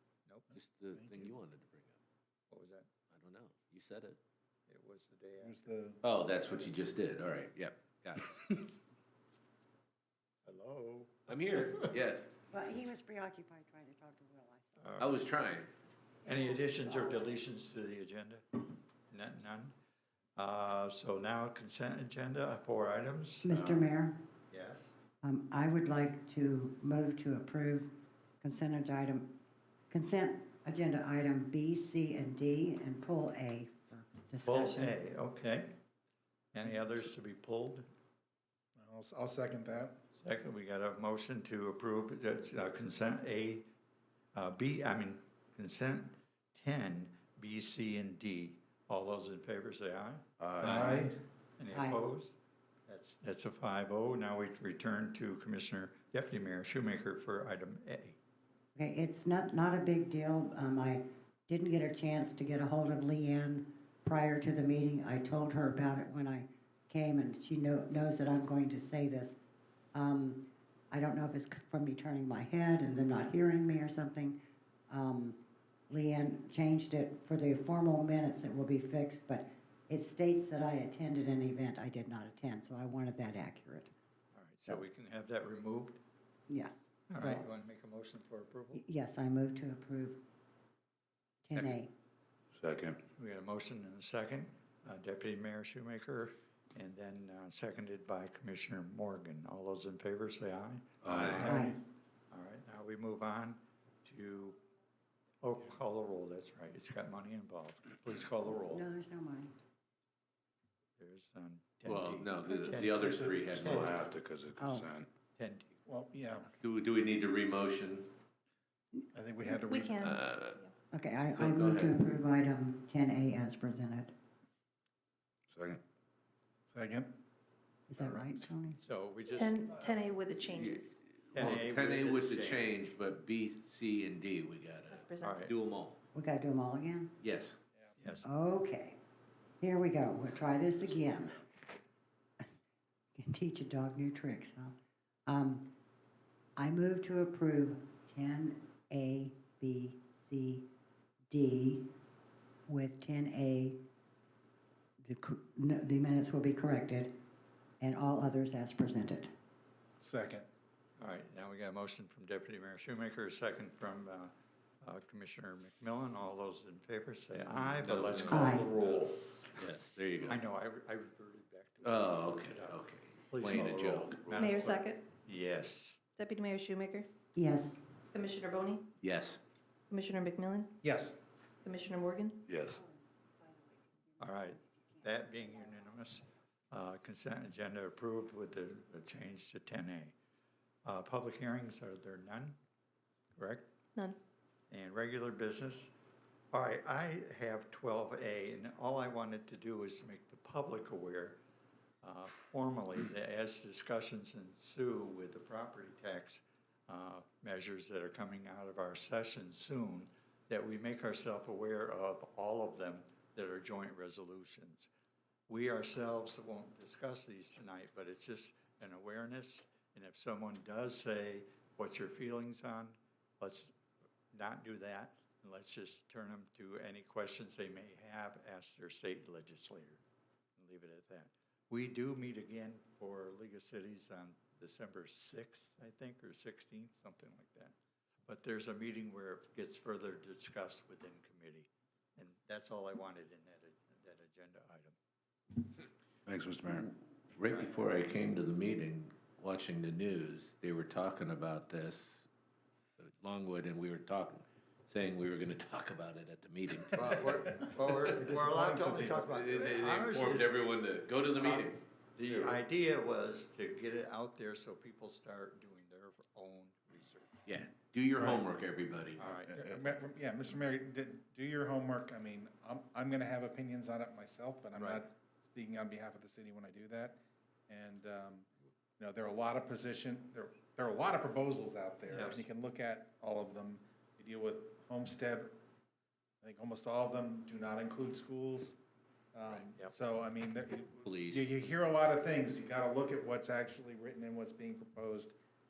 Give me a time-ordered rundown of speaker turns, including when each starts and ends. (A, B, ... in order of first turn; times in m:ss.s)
0:00.3-0:00.6 A
0:00.5-0:02.0 B
0:00.9-0:01.4 C
0:02.5-0:02.9 A
0:03.1-0:04.2 B
0:04.7-0:05.6 A
0:05.4-0:06.0 C
0:06.0-0:08.6 B
0:10.5-0:11.8 A
0:11.3-0:12.3 B
0:12.5-0:14.8 D
0:14.8-0:15.2 A
0:15.0-0:15.7 B
0:16.2-0:19.8 A
0:16.3-0:17.2 D
0:20.4-0:23.5 A
0:23.4-0:24.2 D
0:23.5-0:23.9 E
0:24.5-0:24.9 A
0:25.2-0:29.3 D
0:29.9-0:35.0 D
0:34.4-0:35.7 A
0:36.5-0:37.9 A
0:38.8-0:40.0 C
0:40.2-0:43.7 A
0:44.3-0:58.2 A
0:50.4-0:51.0 E
0:50.6-0:51.1 C
0:51.7-0:52.0 D
0:58.8-1:09.4 D
1:09.9-1:14.4 D
1:14.9-1:23.9 D
1:24.3-1:26.0 A
1:26.5-1:27.7 D
1:27.1-1:28.8 A
1:28.7-1:30.2 D
1:31.4-1:31.9 D
1:32.6-1:33.0 E
1:33.1-1:41.8 A
1:41.0-1:41.6 E
1:41.4-1:41.8 D
1:42.3-1:44.6 A
1:45.4-1:48.8 A
1:48.7-1:49.5 D
1:51.0-1:53.5 A
1:51.8-1:54.0 B
1:52.8-1:54.0 C
1:53.5-1:55.1 E
1:54.6-1:54.9 D
1:55.4-1:55.9 A
1:55.9-1:56.5 C
1:56.6-1:58.1 B
1:59.0-1:59.6 D
1:59.1-2:00.0 C
1:59.6-2:00.7 F
2:00.0-2:00.6 B
2:00.9-2:04.1 D
2:01.4-2:02.0 B
2:05.5-2:05.8 E
2:06.7-2:07.1 C
2:07.9-2:08.8 D
2:08.8-2:09.6 A
2:09.3-2:11.0 F
2:10.5-2:16.0 B
2:11.3-2:12.8 A
2:14.9-2:15.5 F
2:15.2-2:15.5 A
2:16.1-2:17.1 D
2:17.2-2:17.6 B
2:18.0-2:18.3 A
2:18.2-2:19.0 D
2:19.6-2:21.4 D
2:23.2-2:24.8 D
2:25.3-2:25.7 D
2:26.6-2:30.7 D
2:31.3-2:31.9 D
2:32.7-2:33.8 D
2:35.0-2:37.1 D
2:37.8-2:39.3 D
2:40.0-2:40.5 C
2:41.0-2:49.2 A
2:47.4-2:50.4 B
2:48.3-2:48.7 D
2:50.2-2:56.0 A
2:51.8-2:54.3 B
2:54.3-2:55.0 F
2:56.2-2:57.1 F
2:57.4-2:57.8 D
2:58.1-2:58.8 F
2:59.0-2:59.4 B
2:59.9-3:00.8 F
3:00.8-3:01.2 C
3:01.6-3:02.4 F
3:02.5-3:02.8 E
3:02.8-3:05.6 D
3:04.2-3:10.2 A
3:10.8-3:12.6 A
3:13.4-3:13.7 A
3:14.7-3:15.9 A
3:16.5-3:21.4 A
3:22.0-3:34.9 A
3:35.5-3:43.8 A
3:44.3-3:50.0 A
3:50.6-4:05.0 A
4:06.3-4:06.9 E
4:06.8-4:12.3 B
4:07.5-4:07.8 A
4:13.0-4:17.3 B
4:16.9-4:20.6 A
4:18.2-4:19.3 C
4:19.3-4:21.8 B
4:21.4-4:27.4 A
4:22.3-4:22.6 E
4:27.5-4:29.2 B
4:28.2-4:28.4 C
4:29.2-4:29.6 A
4:29.2-4:29.9 E
4:29.6-4:37.2 C
4:34.8-4:35.0 A
4:37.7-4:38.5 C
4:39.0-4:45.5 C
4:42.1-4:42.4 A
4:46.4-4:48.8 C
4:49.3-4:55.4 C
4:49.5-4:50.0 A
4:51.1-4:51.5 B